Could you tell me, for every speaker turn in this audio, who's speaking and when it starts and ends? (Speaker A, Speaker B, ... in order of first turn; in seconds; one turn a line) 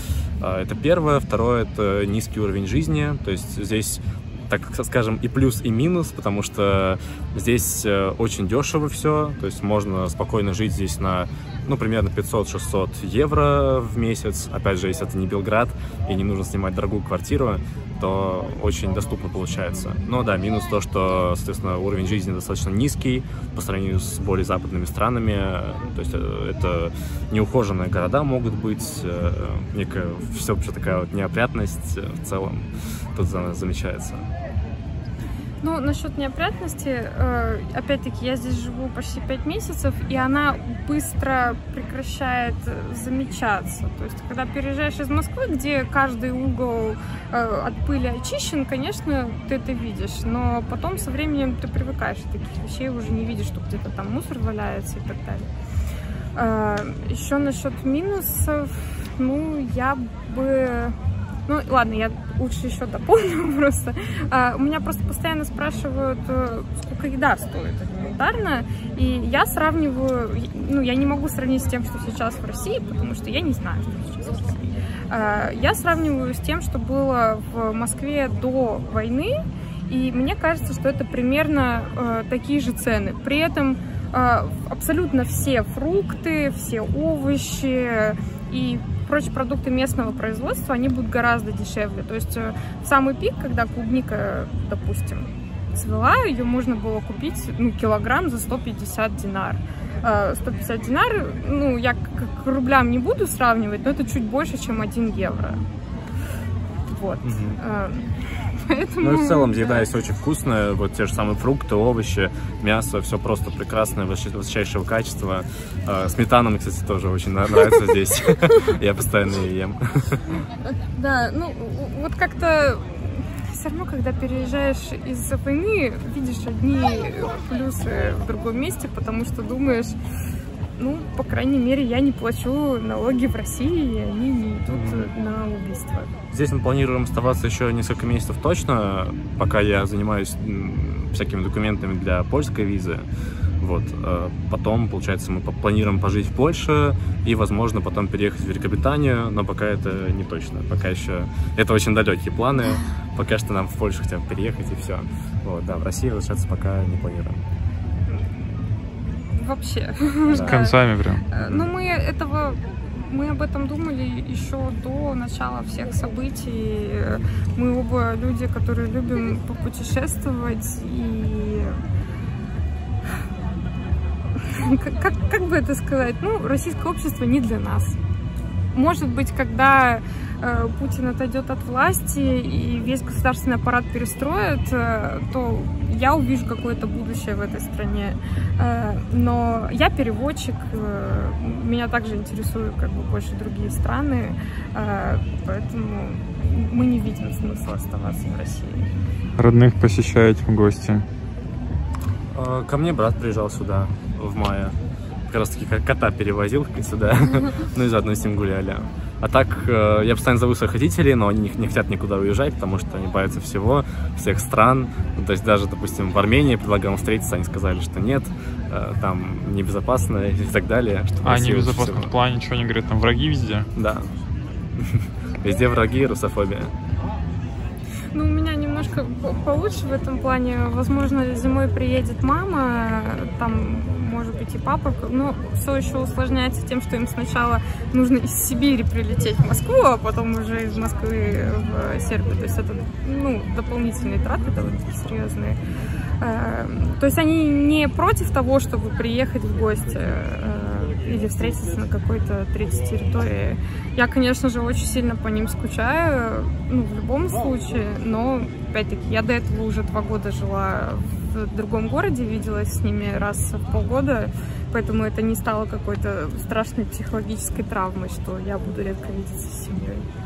Speaker A: 0.4-34.3
Speaker B: 35.6-55.5
Speaker B: 56.4-61.0
Speaker B: 61.5-105.6
Speaker B: 106.9-109.8
Speaker A: 107.2-107.6
Speaker A: 109.0-120.2
Speaker B: 120.9-130.0
Speaker B: 130.8-136.1
Speaker A: 134.7-135.1
Speaker A: 136.3-143.1
Speaker A: 143.6-157.4
Speaker B: 159.3-160.8
Speaker C: 160.3-161.3
Speaker B: 161.3-171.8
Speaker B: 174.5-178.0
Speaker B: 178.7-198.9
Speaker C: 199.4-201.0
Speaker A: 202.3-204.8
Speaker A: 205.3-222.1
Speaker C: 221.2-223.7
Speaker A: 223.8-224.1
Speaker A: 224.8-226.7
Speaker B: 228.1-245.6
Speaker B: 246.2-270.1